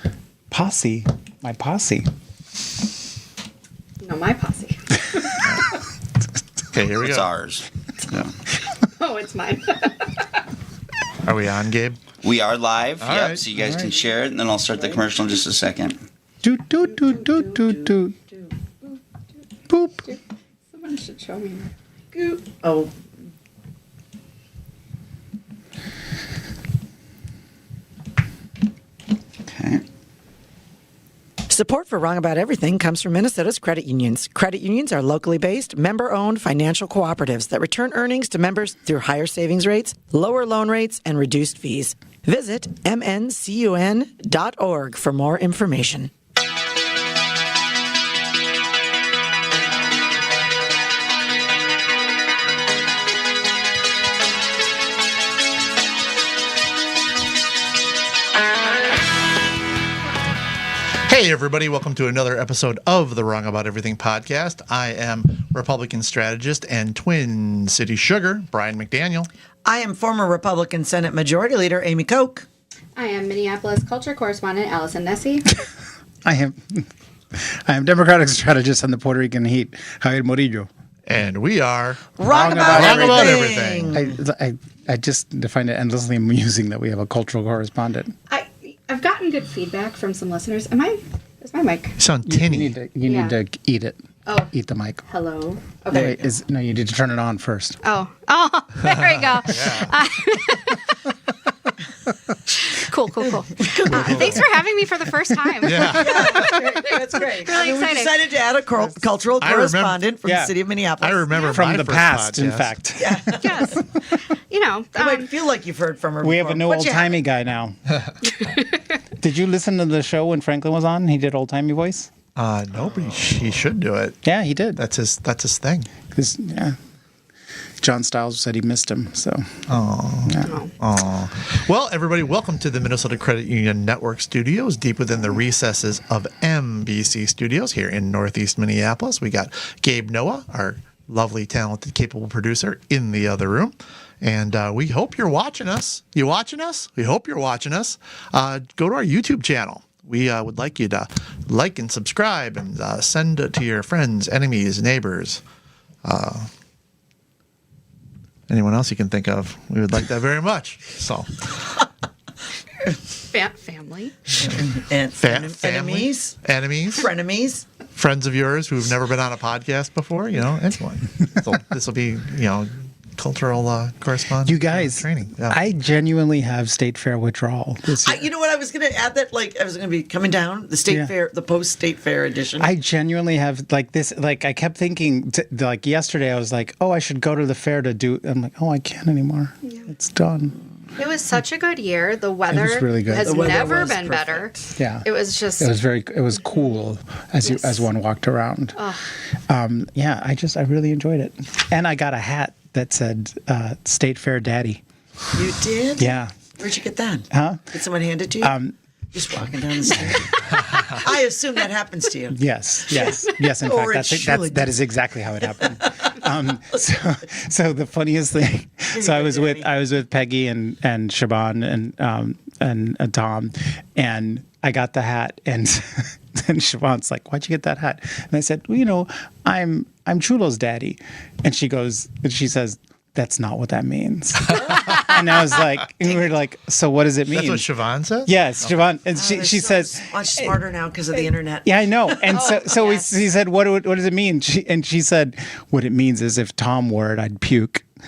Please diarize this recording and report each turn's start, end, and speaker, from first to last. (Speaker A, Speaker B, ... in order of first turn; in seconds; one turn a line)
Speaker A: 0.5-2.1
Speaker B: 4.0-5.6
Speaker C: 6.7-7.3
Speaker D: 7.0-8.3
Speaker B: 8.8-10.4
Speaker C: 11.2-12.0
Speaker D: 12.2-16.0
Speaker C: 13.0-13.4
Speaker A: 13.6-13.9
Speaker A: 16.4-18.2
Speaker A: 19.7-20.1
Speaker B: 20.7-22.4
Speaker E: 22.4-22.9
Speaker D: 29.4-29.8
Speaker E: 31.5-46.1
Speaker C: 61.0-69.3
Speaker E: 69.6-72.5
Speaker B: 73.0-75.4
Speaker A: 76.2-80.7
Speaker C: 81.0-84.0
Speaker E: 82.2-84.2
Speaker A: 82.3-88.1
Speaker B: 88.3-92.0
Speaker C: 92.0-92.7
Speaker A: 92.2-95.0
Speaker B: 93.0-93.3
Speaker B: 95.1-96.2
Speaker E: 95.9-96.3
Speaker A: 95.9-97.8
Speaker B: 97.8-101.0
Speaker C: 99.4-100.0
Speaker B: 102.5-106.8
Speaker E: 103.7-104.2
Speaker C: 103.8-104.5
Speaker C: 105.6-106.4
Speaker E: 105.8-111.3
Speaker B: 107.3-108.2
Speaker C: 109.4-110.0
Speaker A: 110.2-110.5
Speaker C: 111.0-112.8
Speaker B: 111.3-111.6
Speaker A: 111.5-114.0
Speaker E: 113.0-113.8
Speaker B: 113.4-115.3
Speaker E: 114.9-117.2
Speaker A: 116.2-117.8
Speaker A: 119.2-122.1
Speaker C: 122.3-124.2
Speaker A: 124.2-124.8
Speaker C: 124.8-125.9
Speaker A: 126.1-126.8
Speaker A: 127.8-129.6
Speaker C: 129.7-155.4
Speaker A: 130.3-130.5
Speaker B: 130.4-130.7
Speaker C: 156.0-156.5
Speaker C: 158.5-161.8
Speaker B: 163.3-164.2
Speaker E: 164.3-166.3
Speaker C: 165.1-167.1
Speaker E: 166.9-167.6
Speaker C: 167.9-175.6
Speaker A: 174.4-178.3
Speaker E: 178.0-182.7
Speaker A: 182.6-190.6
Speaker B: 191.0-195.7
Speaker A: 192.5-193.4
Speaker E: 193.2-194.5
Speaker A: 194.8-195.1
Speaker A: 195.6-198.8
Speaker B: 197.4-197.9
Speaker B: 198.8-199.1
Speaker A: 199.5-204.8
Speaker E: 205.3-208.5
Speaker A: 206.0-206.3
Speaker A: 207.3-207.7
Speaker A: 208.4-208.7
Speaker E: 209.1-212.4
Speaker A: 212.3-237.7
Speaker E: 212.9-214.8
Speaker E: 215.8-216.2
Speaker E: 218.9-219.7
Speaker C: 237.3-238.9
Speaker A: 238.2-240.6
Speaker E: 239.1-242.1
Speaker A: 241.2-247.8
Speaker B: 242.3-243.1